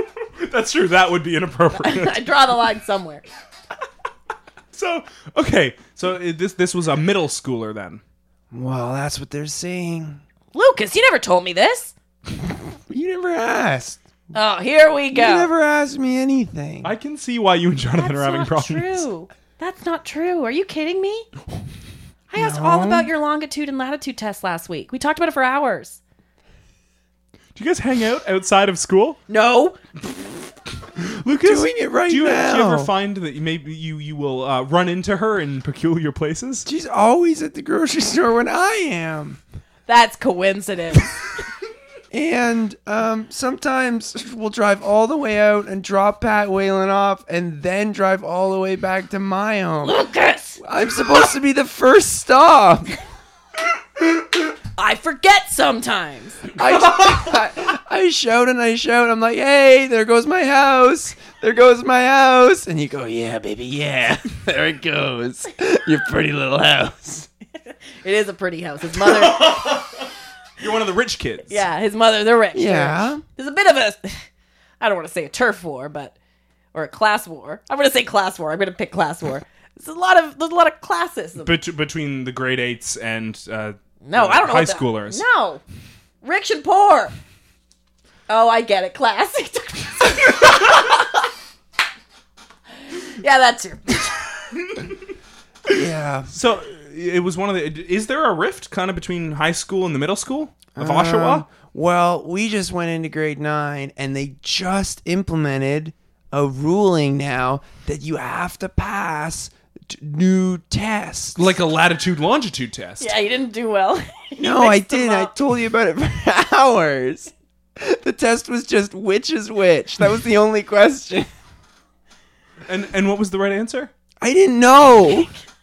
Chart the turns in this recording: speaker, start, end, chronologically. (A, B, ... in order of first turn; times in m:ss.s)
0:00.4-0:02.2 A
0:01.8-0:03.2 B
0:04.7-0:08.0 A
0:08.5-0:10.2 C
0:10.5-0:11.9 B
0:12.9-0:14.0 C
0:14.3-0:15.5 B
0:15.1-0:16.9 C
0:16.8-0:19.0 A
0:18.0-0:21.3 B
0:22.3-0:26.0 B
0:22.4-0:23.1 C
0:27.6-0:29.2 A
0:29.3-0:29.8 B
0:31.0-0:36.7 A
0:31.4-0:32.9 C
0:36.6-0:39.4 C
0:39.9-0:41.1 B
0:42.1-0:50.0 C
0:49.8-0:50.6 B
0:50.6-0:52.9 C
0:54.8-0:56.6 B
0:56.6-1:07.3 C
1:07.7-1:09.7 B
1:09.0-1:11.6 A
1:11.5-1:14.2 B
1:12.5-1:13.2 C
1:14.8-1:16.1 B
1:16.7-1:21.6 B
1:21.4-1:25.2 A
1:24.0-1:25.6 B
1:26.2-1:27.1 B
1:28.3-1:31.0 B
1:33.2-1:34.2 B
1:35.7-1:36.3 C
1:36.3-1:41.5 A
1:40.8-1:51.6 C
1:51.4-1:53.1 A
1:53.0-1:55.3 B
1:54.4-2:01.3 C
2:02.7-2:03.9 A
2:04.2-2:05.3 C